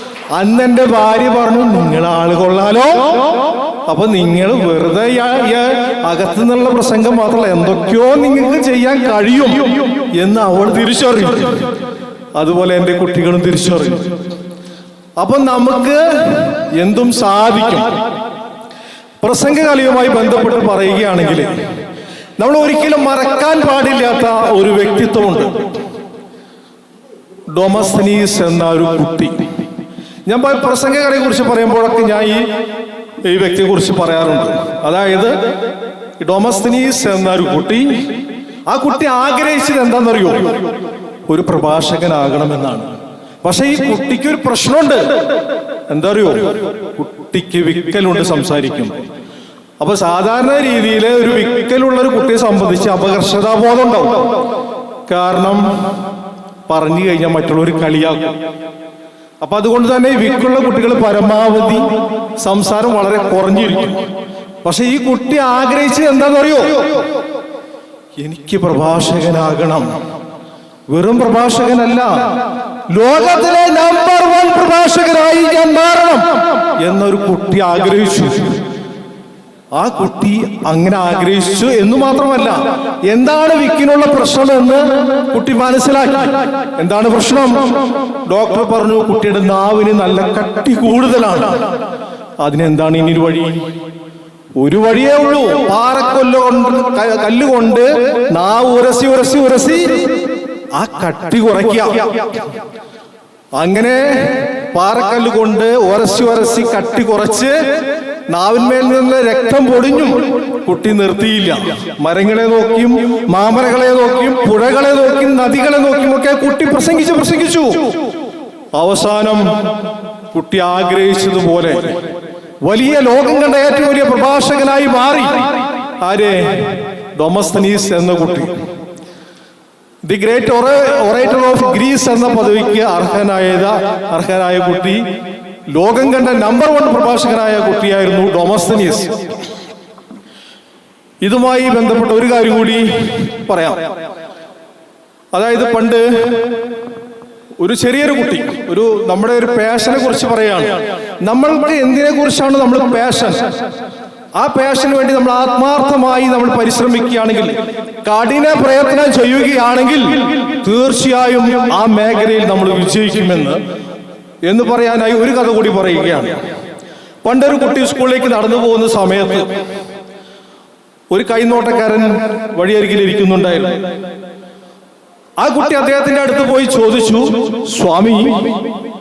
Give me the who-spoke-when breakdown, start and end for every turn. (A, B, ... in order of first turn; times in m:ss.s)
0:00.3-0:11.7 A
0:12.4-0:14.2 A
0:15.2-0:18.0 A
0:19.2-0:21.5 A
0:22.4-0:25.8 A
0:27.5-0:29.3 A
0:30.3-0:32.4 A
0:33.2-0:35.4 A
0:36.2-0:37.9 A
0:38.7-0:40.7 A
0:41.3-0:45.3 A
0:45.9-0:49.0 A
0:49.8-0:54.4 A
0:55.1-0:56.1 A
0:56.7-0:58.4 A
0:59.4-1:04.0 A
1:04.6-1:07.1 A
1:08.2-1:09.9 A
1:10.9-1:18.6 A
1:19.7-1:31.8 A
1:32.4-1:33.6 A
1:34.6-1:40.2 A
1:40.7-1:42.4 A
1:43.6-1:47.6 A
1:48.3-1:58.0 A
1:58.7-1:59.7 A
2:00.3-2:02.0 A
2:02.6-2:08.5 A
2:10.0-2:15.0 A
2:15.7-2:19.3 A
2:21.2-2:23.9 A
2:25.3-2:26.6 A
2:27.6-2:33.5 A
2:34.3-2:43.6 A
2:44.4-2:46.4 A
2:47.2-2:49.5 A
2:51.1-2:53.8 A
2:55.4-2:58.6 A